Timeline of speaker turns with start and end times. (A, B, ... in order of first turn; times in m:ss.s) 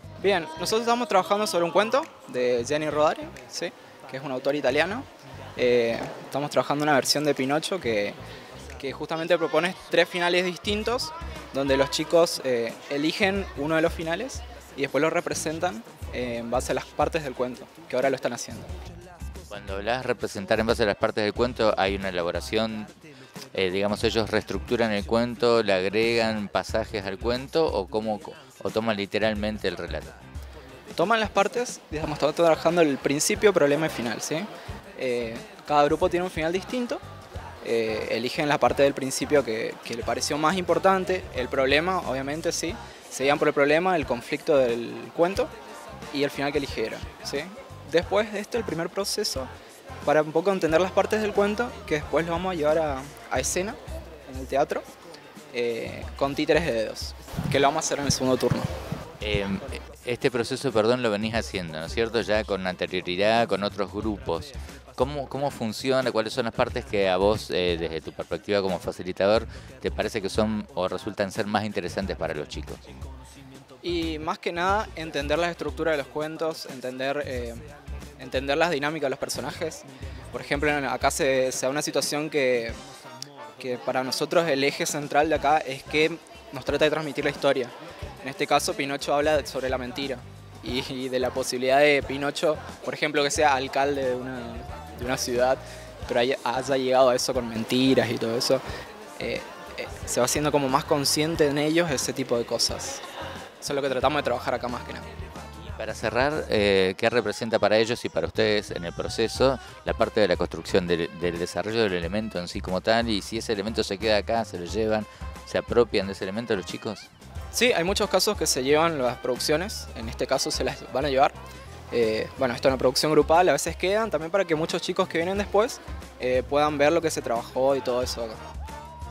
0:00.2-0:08.2 A
0:08.8-0:18.7 A
0:19.5-0:22.9 B
0:23.5-0:30.1 B
0:31.0-0:37.0 A
0:37.6-0:45.5 A
0:46.1-0:49.5 A
0:50.0-0:54.9 A
0:55.5-0:58.7 A
0:59.2-1:12.8 B
1:13.8-1:17.6 A
1:18.2-1:22.8 A
1:23.6-1:38.6 A
1:39.2-1:43.0 A
1:43.6-1:45.1 A
1:45.8-1:57.1 B
1:57.5-2:01.4 A
2:01.9-2:08.4 A